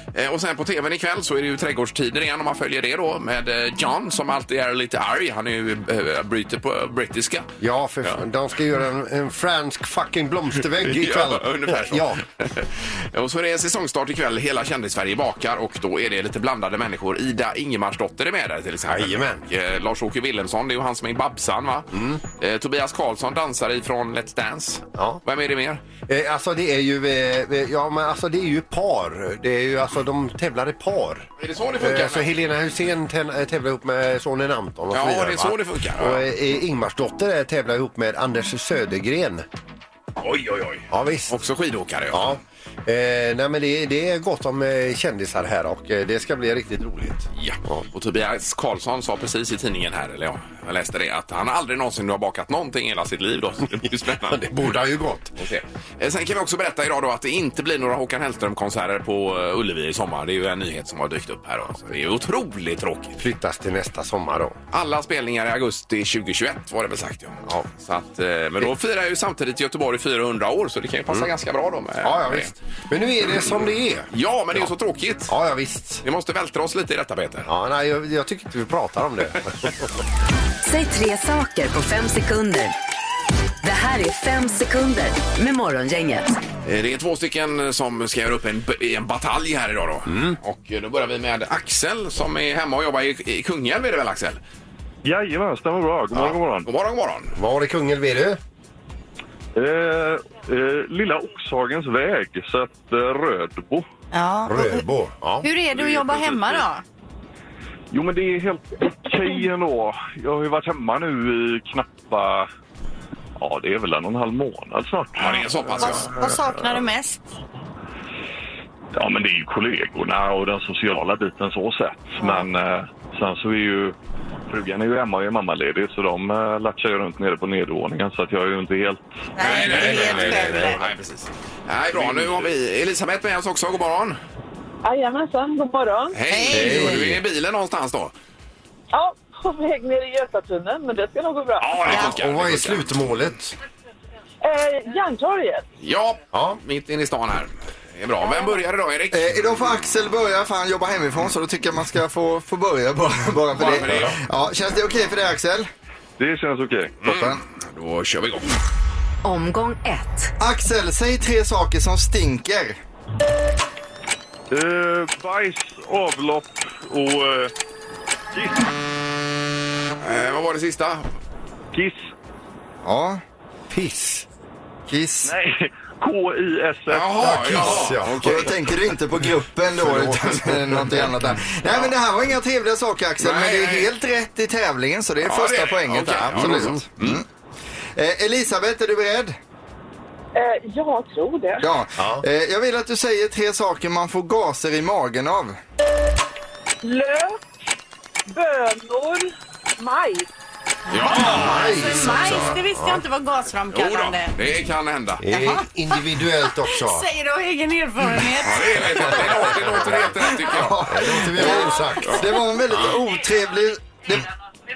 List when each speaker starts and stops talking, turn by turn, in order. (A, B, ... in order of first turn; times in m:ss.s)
0:00.1-0:07.5 A
0:07.6-0:12.2 B
0:10.8-0:25.8 A
0:18.9-0:19.4 B
0:21.9-0:22.2 B
0:25.0-0:25.2 B
0:26.1-0:31.3 B
0:31.4-0:32.3 A
0:31.8-0:39.4 B
0:34.9-0:36.3 A
0:40.2-0:42.3 A
0:40.9-0:41.3 B
0:42.1-0:47.8 B
0:47.4-0:54.7 A
0:54.3-0:55.3 B
0:55.4-1:03.2 A
1:03.2-1:04.6 B
1:04.7-1:12.5 A
1:12.0-1:14.7 B
1:14.1-1:15.3 A
1:15.3-1:16.0 B
1:16.0-1:17.5 A
1:17.5-1:19.9 B
1:20.6-1:22.8 C
1:23.6-1:26.4 C
1:26.6-1:34.4 A
1:30.1-1:30.4 B
1:35.0-1:36.7 D
1:36.6-1:37.4 A
1:37.4-1:38.4 B
1:39.6-1:43.9 D
1:44.1-1:44.9 E
1:44.5-1:45.5 B
1:45.4-1:46.8 E
1:47.9-1:52.5 D
1:53.4-1:56.3 D
1:55.2-1:56.1 A
1:55.3-1:57.3 E
1:59.0-2:04.0 D
2:02.2-2:02.4 E
2:04.5-2:09.1 D
2:09.4-2:10.8 E
2:09.4-2:14.2 A
2:09.7-2:10.8 B
2:11.9-2:12.5 D
2:14.8-2:16.2 F
2:16.1-2:18.1 A
2:16.3-2:17.0 E
2:16.5-2:17.2 B
2:18.9-2:21.9 F
2:21.6-2:23.0 A
2:21.8-2:23.6 B
2:24.4-2:25.6 F
2:25.8-2:29.4 A
2:26.3-2:26.6 B
2:29.1-2:35.7 G
2:33.6-2:34.2 A
2:36.2-2:37.1 D
2:37.0-2:38.5 A
2:37.0-2:37.4 G
2:39.2-2:40.3 C
2:40.4-2:42.8 G
2:44.5-2:47.5 D
2:48.3-2:48.7 D
2:50.0-2:51.1 A
2:51.7-2:52.1 D
2:52.8-2:53.2 G
2:53.7-2:54.2 B
2:54.9-2:55.3 G
2:55.2-2:57.6 D
2:56.9-2:58.5 A
2:57.2-2:58.6 B
2:57.5-3:07.2 G
2:59.7-3:01.4 B
3:03.2-3:03.9 A
3:05.2-3:07.2 A
3:06.2-3:06.9 B
3:08.0-3:09.4 G
3:10.4-3:11.7 F
3:11.6-3:15.6 G
3:12.0-3:12.2 B
3:16.8-3:17.4 F
3:18.3-3:20.3 F
3:20.9-3:24.3 E
3:20.9-3:22.5 A
3:21.1-3:23.0 B
3:23.7-3:25.3 A
3:25.2-3:27.1 B
3:25.3-3:29.2 E
3:28.4-3:30.8 A
3:29.0-3:30.0 B
3:30.6-3:34.3 G
3:30.6-3:33.0 B